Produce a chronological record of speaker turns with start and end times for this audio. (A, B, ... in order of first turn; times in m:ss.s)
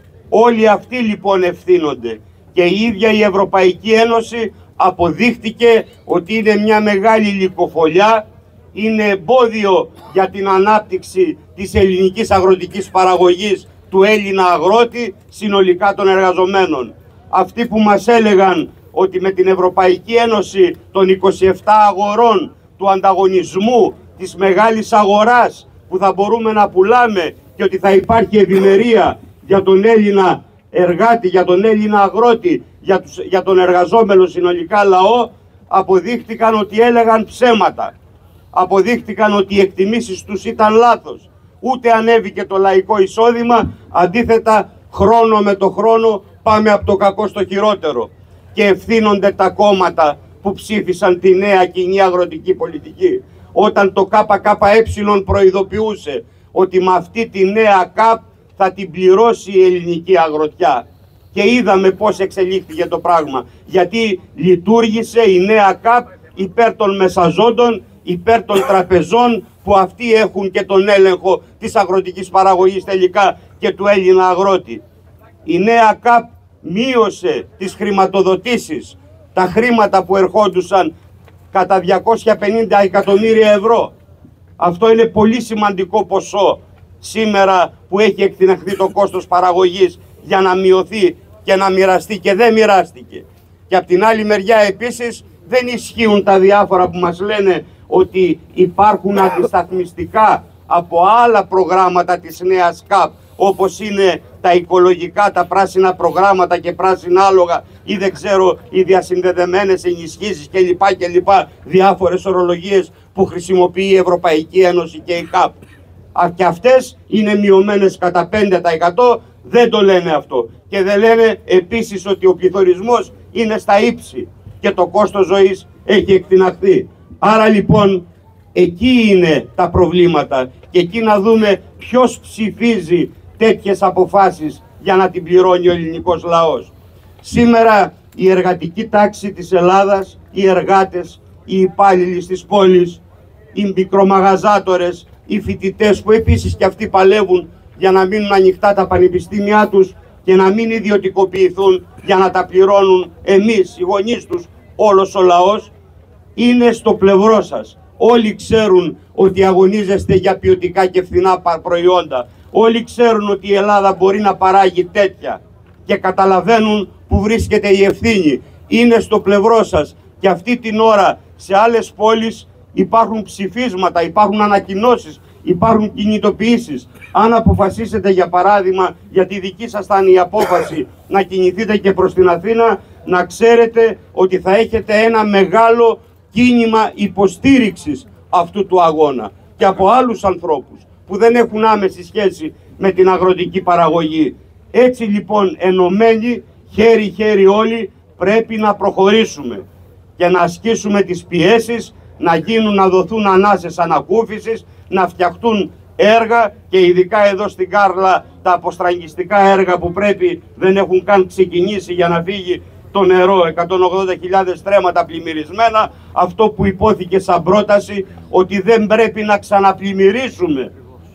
0:00.3-0:37.9 A
0:38.5-1:14.8 A
1:15.4-1:20.9 A
1:21.5-1:23.9 A
1:24.6-1:55.6 A
1:56.2-2:08.0 A
2:08.6-2:23.0 A
2:23.5-2:35.7 A
2:36.4-3:19.6 A
3:20.2-3:40.7 A